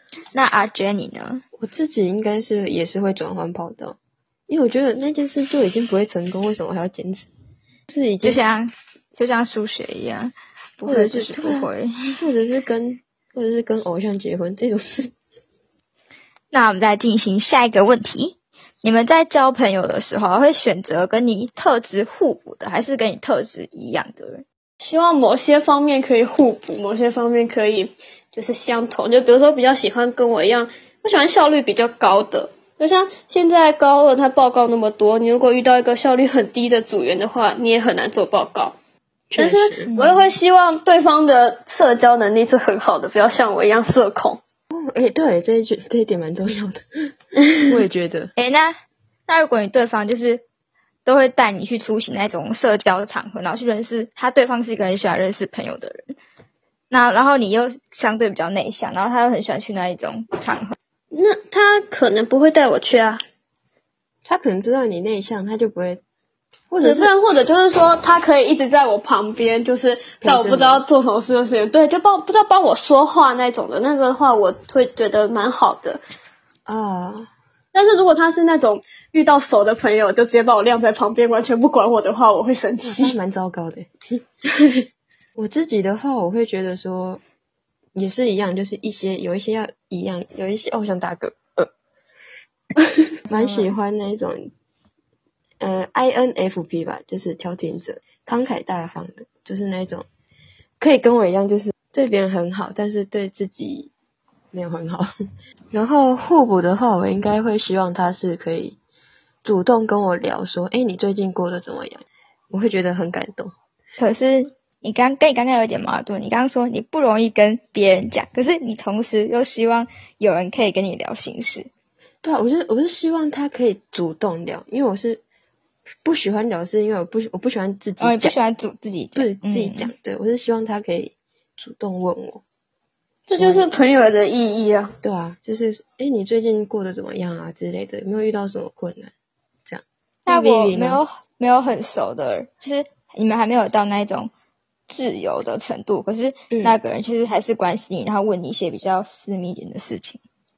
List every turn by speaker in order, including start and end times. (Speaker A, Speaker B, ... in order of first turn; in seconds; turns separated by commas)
Speaker A: 0.3-1.4, Speaker B: 1.6-4.0, Speaker B: 4.5-7.3, Speaker B: 7.9-8.4, Speaker A: 8.2-12.2, Speaker B: 10.8-15.1, Speaker A: 16.5-24.4, Speaker C: 24.8-38.8, Speaker B: 39.3-39.9, Speaker C: 39.3-44.4, Speaker A: 39.9-40.3, Speaker B: 44.7-48.3, Speaker A: 48.4-48.7, Speaker A: 49.3-50.4, Speaker A: 51.0-56.1, Speaker A: 56.9-60.8, Speaker C: 61.1-63.2, Speaker B: 64.2-66.0, Speaker B: 66.7-67.1, Speaker C: 66.8-76.0, Speaker B: 70.2-70.8, Speaker B: 76.7-77.3, Speaker C: 77.7-83.2, Speaker B: 82.8-83.9, Speaker B: 84.5-84.8, Speaker B: 85.3-87.2, Speaker B: 87.9-91.7, Speaker B: 93.2-94.5, Speaker A: 93.3-93.7, Speaker B: 95.6-100.0, Speaker B: 100.8-103.9, Speaker B: 104.5-105.1, Speaker B: 105.7-108.8, Speaker B: 109.4-113.5, Speaker A: 114.0-121.7, Speaker B: 122.2-125.2, Speaker B: 126.0-128.3, Speaker A: 128.0-129.9, Speaker B: 129.1-132.4, Speaker C: 133.3-135.0, Speaker B: 133.3-133.7, Speaker B: 135.0-139.1, Speaker B: 139.7-141.0, Speaker A: 140.2-144.3, Speaker A: 144.9-150.2, Speaker B: 146.5-146.8